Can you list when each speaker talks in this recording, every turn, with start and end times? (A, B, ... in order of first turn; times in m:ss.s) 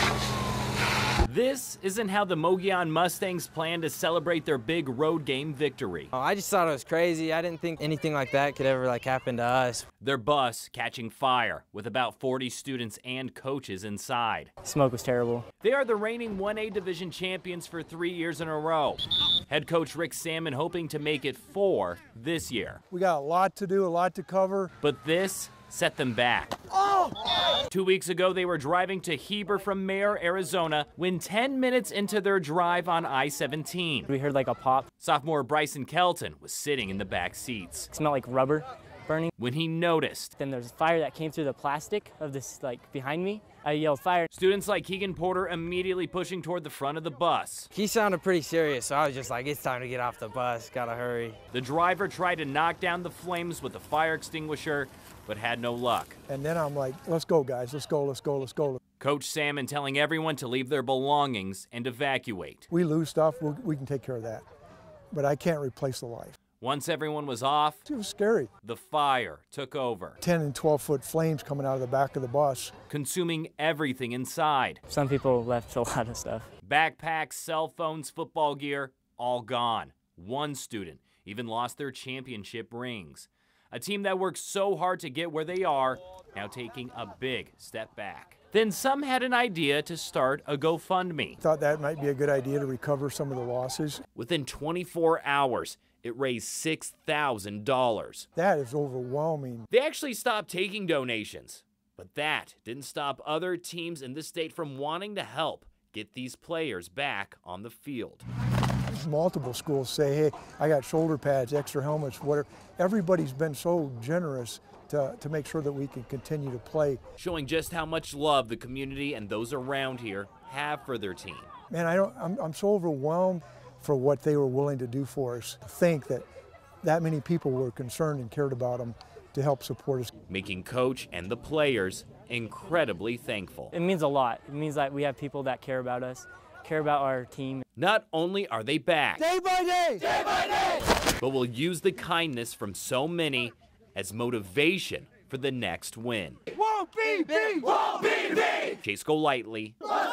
0:01.2-0:06.1 A
0:06.1-0:09.8 B
0:10.0-0:14.5 A
0:14.6-0:15.5 C
0:15.6-0:22.8 A
0:22.9-0:24.7 D
0:24.8-0:26.6 A
0:27.7-0:34.1 A
0:34.1-0:34.9 C
0:35.0-0:37.9 A
0:37.9-0:39.3 C
0:39.4-0:40.4 A
0:40.4-0:44.3 C
0:44.3-0:47.7 A
0:47.7-0:51.4 B
0:51.5-0:56.2 A
0:56.3-0:58.8 D
0:59.0-1:02.7 A
1:02.7-1:04.4 D
1:05.1-1:06.4 D
1:06.6-1:07.8 A
1:07.9-1:08.5 D
1:08.6-1:10.2 A
1:10.2-1:12.7 D
1:12.9-1:14.8 A
1:14.9-1:16.5 C
1:16.6-1:31.4 A
1:31.4-1:34.0 D
1:34.1-1:38.3 A
1:38.4-1:39.7 D
1:39.7-1:48.2 A
1:48.9-1:57.0 D
1:57.2-2:01.5 A
2:01.7-2:06.2 D
2:06.8-2:10.1 D
2:10.3-2:13.7 A
2:13.7-2:17.6 C
2:17.8-2:19.3 A
2:19.2-2:20.0 D
2:21.2-2:26.4 A
2:26.6-2:27.7 D
2:28.7-2:29.8 A